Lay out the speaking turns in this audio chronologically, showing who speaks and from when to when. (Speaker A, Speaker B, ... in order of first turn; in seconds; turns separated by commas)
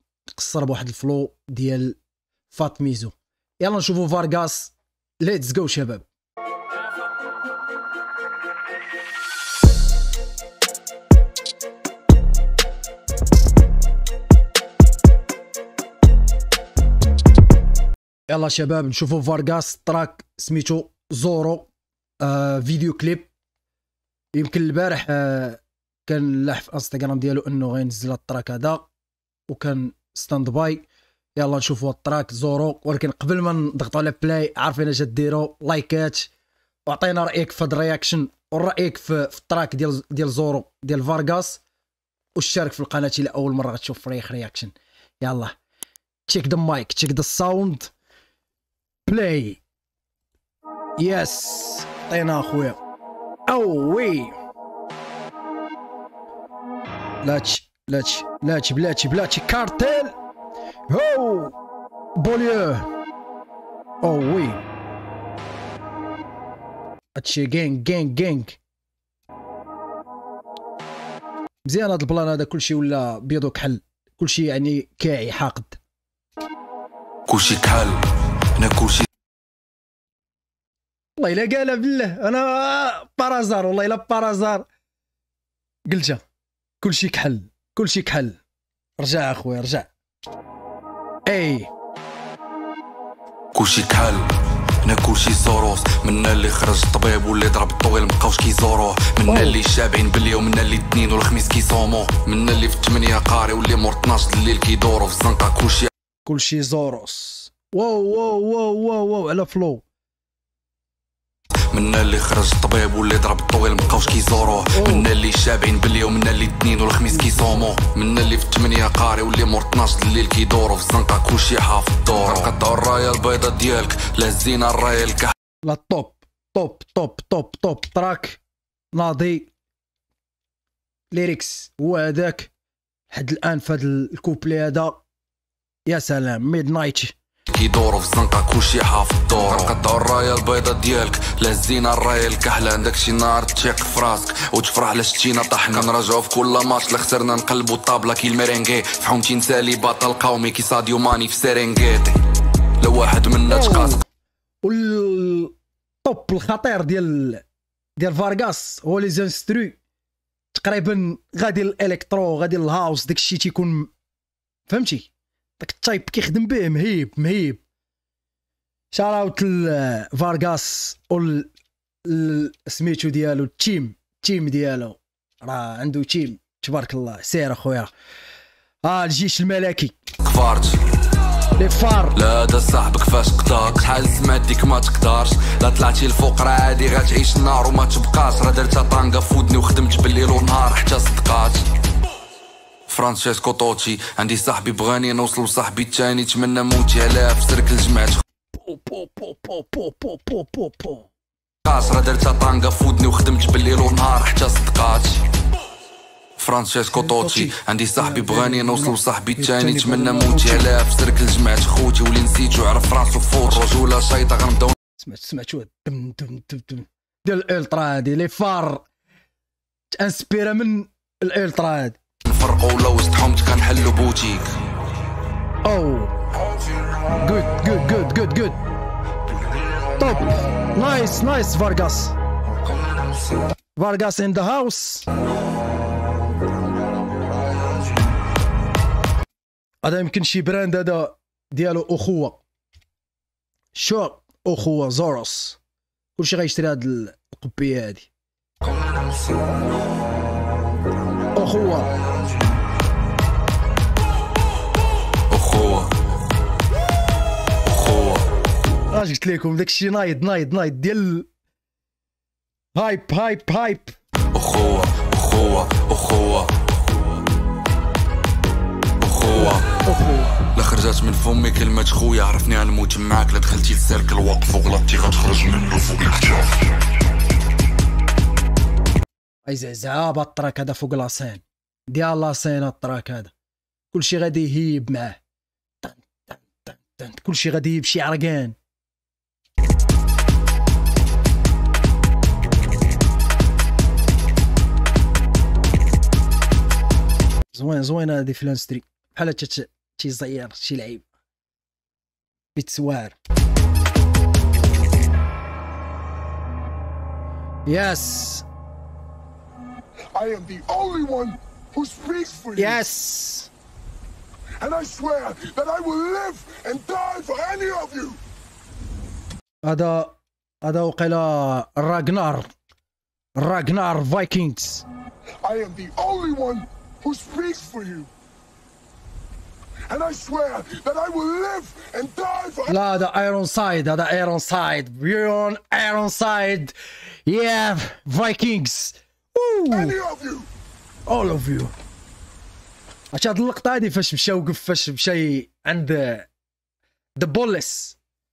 Speaker A: 0.3-2.0, Speaker A: 2.5-6.1, Speaker A: 18.3-21.7, Speaker A: 22.2-23.3, Speaker A: 24.3-28.9, Speaker A: 29.5-36.3, Speaker A: 36.9-41.6, Speaker A: 42.4-45.5, Speaker A: 46.3-47.9, Speaker A: 49.1-49.6, Speaker A: 51.0-52.8, Speaker A: 53.5-54.4, Speaker A: 57.2-60.1, Speaker A: 60.9-61.6, Speaker A: 62.2-62.9, Speaker A: 64.0-64.6, Speaker A: 67.2-68.6, Speaker A: 71.7-75.8, Speaker B: 77.3-78.0, Speaker B: 78.6-79.1, Speaker A: 81.2-84.7, Speaker A: 85.9-86.2, Speaker A: 86.8-88.4, Speaker A: 89.0-89.9, Speaker A: 91.3-91.7, Speaker B: 93.5-105.9, Speaker A: 99.3-99.6, Speaker A: 106.3-109.8, Speaker B: 111.7-125.3, Speaker A: 114.6-115.1, Speaker A: 117.1-117.7, Speaker A: 125.6-128.4, Speaker A: 128.9-129.5, Speaker A: 131.1-132.5, Speaker A: 133.1-135.0, Speaker A: 135.9-137.2, Speaker B: 137.5-152.2, Speaker B: 152.8-154.0, Speaker A: 153.5-154.0, Speaker A: 154.6-157.4, Speaker A: 158.0-159.8, Speaker A: 160.5-163.9, Speaker A: 164.7-167.6, Speaker A: 168.9-171.5, Speaker A: 172.1-177.9, Speaker A: 178.8-180.0, Speaker B: 180.2-180.8, Speaker A: 181.5-182.2, Speaker B: 182.2-191.7, Speaker B: 192.9-198.2, Speaker A: 198.5-201.1, Speaker B: 201.7-205.2, Speaker B: 206.4-214.8, Speaker A: 206.9-210.7, Speaker A: 215.0-218.9, Speaker A: 220.0-222.0, Speaker B: 222.2-224.5, Speaker A: 225.6-226.2, Speaker A: 227.2-228.6, Speaker A: 230.0-232.2, Speaker A: 233.8-235.1, Speaker A: 239.8-242.4, Speaker A: 243.7-245.6, Speaker A: 246.2-248.1, Speaker A: 251.3-251.9, Speaker B: 255.3-255.9, Speaker B: 257.6-258.3, Speaker A: 258.9-261.3, Speaker A: 262.8-264.0, Speaker B: 264.3-266.6, Speaker B: 269.0-269.8, Speaker A: 269.4-270.4, Speaker B: 270.4-276.5, Speaker A: 279.5-283.3, Speaker A: 283.9-285.2, Speaker A: 285.8-288.6, Speaker A: 297.5-301.1, Speaker A: 302.6-303.2, Speaker A: 307.7-308.5, Speaker C: 310.1-312.8, Speaker A: 312.6-313.5, Speaker C: 314.6-318.2, Speaker A: 319.6-322.5, Speaker A: 323.4-324.9, Speaker C: 325.4-328.1, Speaker C: 329.9-332.8, Speaker A: 332.7-340.0, Speaker C: 339.7-340.5, Speaker A: 341.1-341.7, Speaker A: 343.1-346.3, Speaker A: 347.2-348.0